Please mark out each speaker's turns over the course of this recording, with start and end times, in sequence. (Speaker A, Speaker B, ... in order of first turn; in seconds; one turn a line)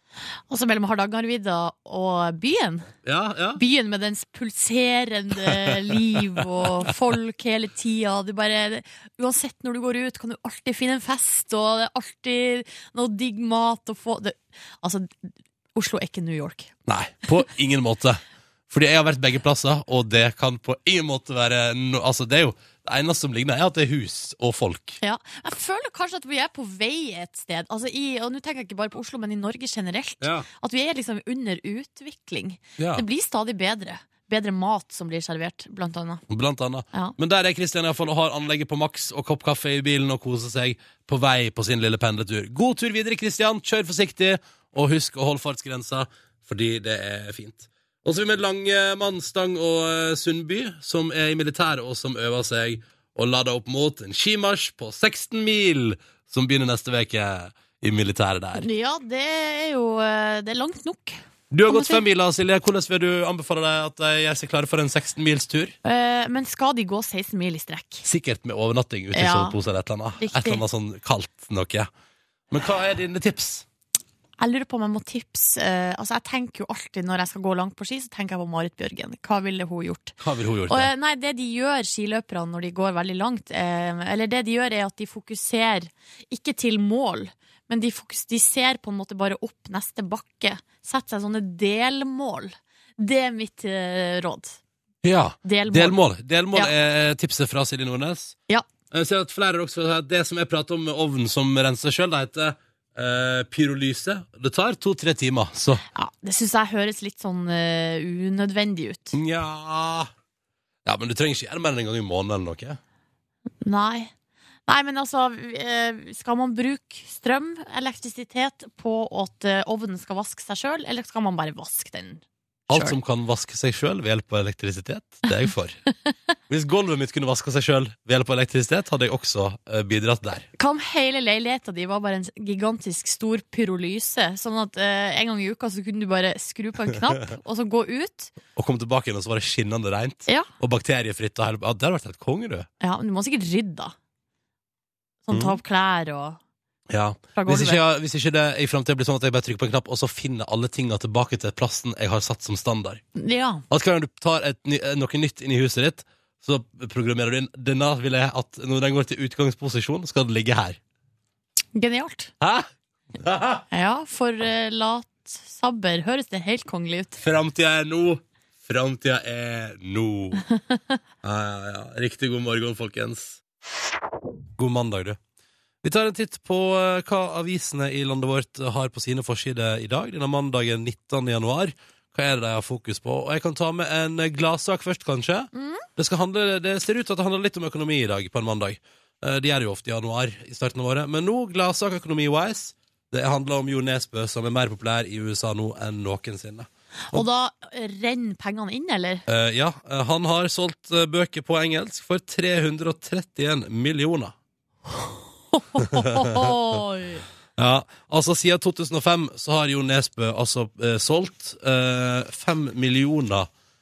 Speaker A: 0.5-2.9
Speaker B: 3.0-3.6
Speaker A: 3.5-16.7
Speaker B: 5.5-6.4
Speaker B: 16.9-25.0
Speaker A: 25.0-36.2
Speaker B: 30.2-30.5
Speaker B: 32.8-33.0
Speaker B: 36.3-58.7
Speaker A: 58.5-62.0
Speaker B: 61.5-65.7
Speaker A: 65.8-68.0
Speaker B: 68.0-71.9
Speaker A: 69.1-69.6
Speaker A: 70.2-70.6
Speaker B: 72.5-73.6
Speaker A: 74.4-80.2
Speaker B: 80.2-80.9
Speaker A: 80.7-94.6
Speaker B: 95.0-98.3
Speaker A: 95.4-96.0
Speaker B: 98.9-105.8
Speaker A: 105.9-109.2
Speaker B: 109.1-110.1
Speaker B: 110.8-112.8
Speaker A: 113.6-114.1
Speaker A: 114.7-123.0
Speaker B: 122.7-125.8
Speaker B: 126.5-130.5
Speaker A: 130.6-138.3
Speaker B: 138.6-142.7
Speaker A: 142.8-143.9
Speaker A: 145.3-146.4
Speaker B: 145.3-145.6
Speaker B: 146.9-153.0
Speaker A: 147.3-147.8
Speaker A: 153.2-153.6
Speaker B: 153.7-160.8
Speaker A: 161.7-162.3
Speaker B: 162.4-163.7
Speaker A: 163.7-167.2
Speaker B: 167.2-170.4
Speaker B: 171.2-173.4
Speaker B: 174.6-175.2
Speaker B: 175.8-197.2
Speaker A: 185.5-185.9
Speaker A: 197.1-199.2
Speaker B: 199.3-204.3
Speaker A: 205.5-207.2
Speaker B: 205.8-206.5
Speaker B: 207.6-213.5